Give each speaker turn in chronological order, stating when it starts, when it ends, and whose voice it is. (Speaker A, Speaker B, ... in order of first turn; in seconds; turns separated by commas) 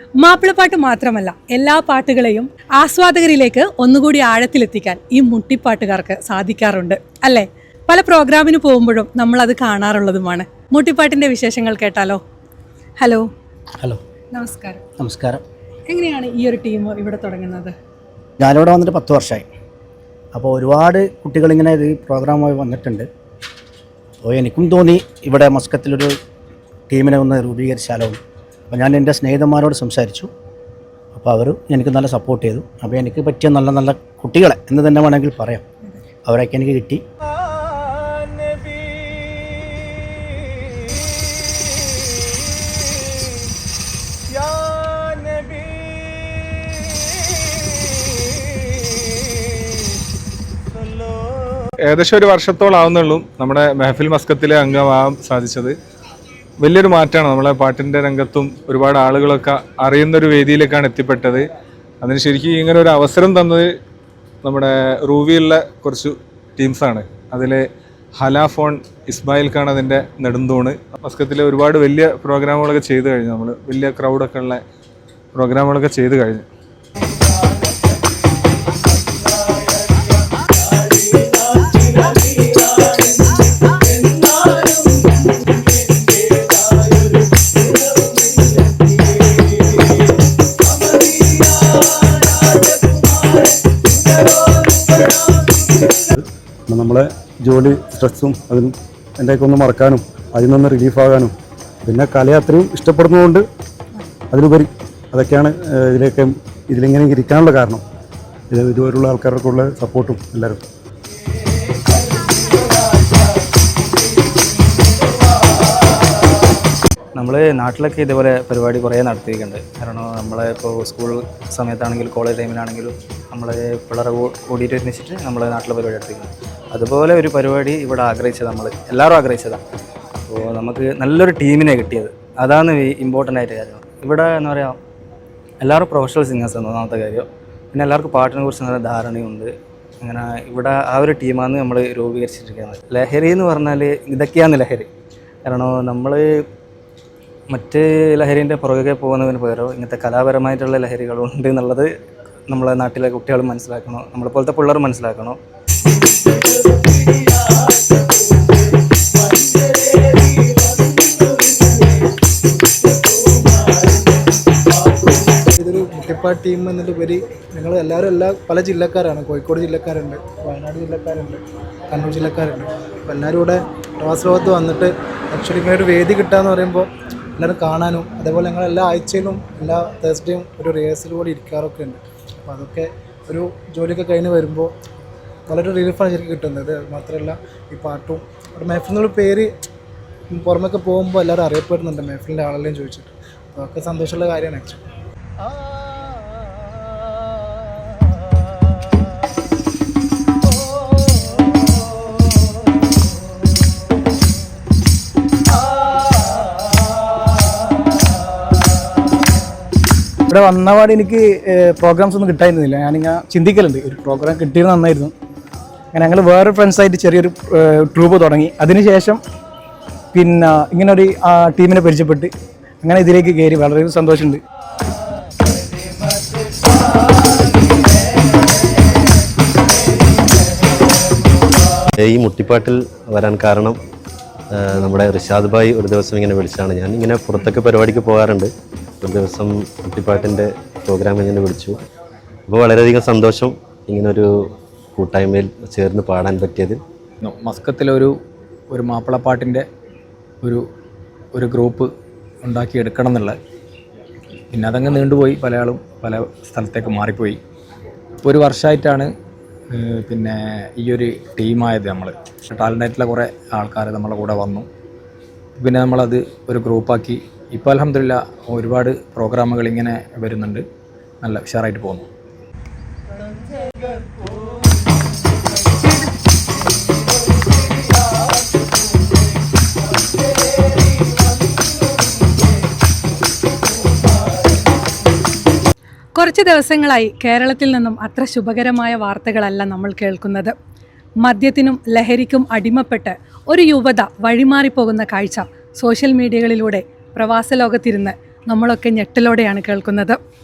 Speaker A: 0.2-12.2, Speaker A: 13.0-13.3, Speaker A: 14.3-14.8, Speaker B: 15.0-15.4, Speaker A: 15.9-17.7, Speaker B: 18.4-19.4, Speaker B: 20.3-23.1, Speaker B: 24.2-26.1, Speaker B: 26.9-28.2, Speaker B: 28.7-30.3, Speaker B: 31.1-35.6, Speaker B: 36.2-37.0, Speaker C: 51.9-55.8, Speaker C: 56.6-61.5, Speaker C: 62.0-63.7, Speaker C: 64.4-67.7, Speaker C: 68.2-74.6, Speaker C: 75.3-76.5, Speaker D: 96.1-101.3, Speaker D: 101.9-103.5, Speaker D: 104.3-107.8, Speaker D: 108.5-110.6, Speaker E: 117.2-129.6, Speaker E: 130.3-134.8, Speaker E: 135.6-144.9, Speaker E: 145.4-146.2, Speaker E: 147.5-151.9, Speaker E: 152.5-155.4, Speaker F: 165.6-184.7, Speaker F: 185.5-189.5, Speaker F: 190.3-194.8, Speaker G: 210.3-215.1, Speaker G: 215.9-219.2, Speaker G: 220.1-222.3, Speaker G: 222.8-224.4, Speaker H: 232.0-233.8, Speaker H: 234.5-238.5, Speaker H: 239.0-241.8, Speaker H: 242.5-244.3, Speaker H: 245.0-246.8, Speaker I: 247.2-248.2, Speaker I: 248.7-249.7, Speaker I: 251.3-251.9, Speaker I: 252.4-253.4, Speaker I: 254.5-257.4, Speaker I: 258.2-259.1, Speaker I: 259.7-264.7, Speaker I: 265.6-270.6, Speaker I: 271.2-272.1, Speaker A: 286.1-290.5, Speaker A: 291.2-300.2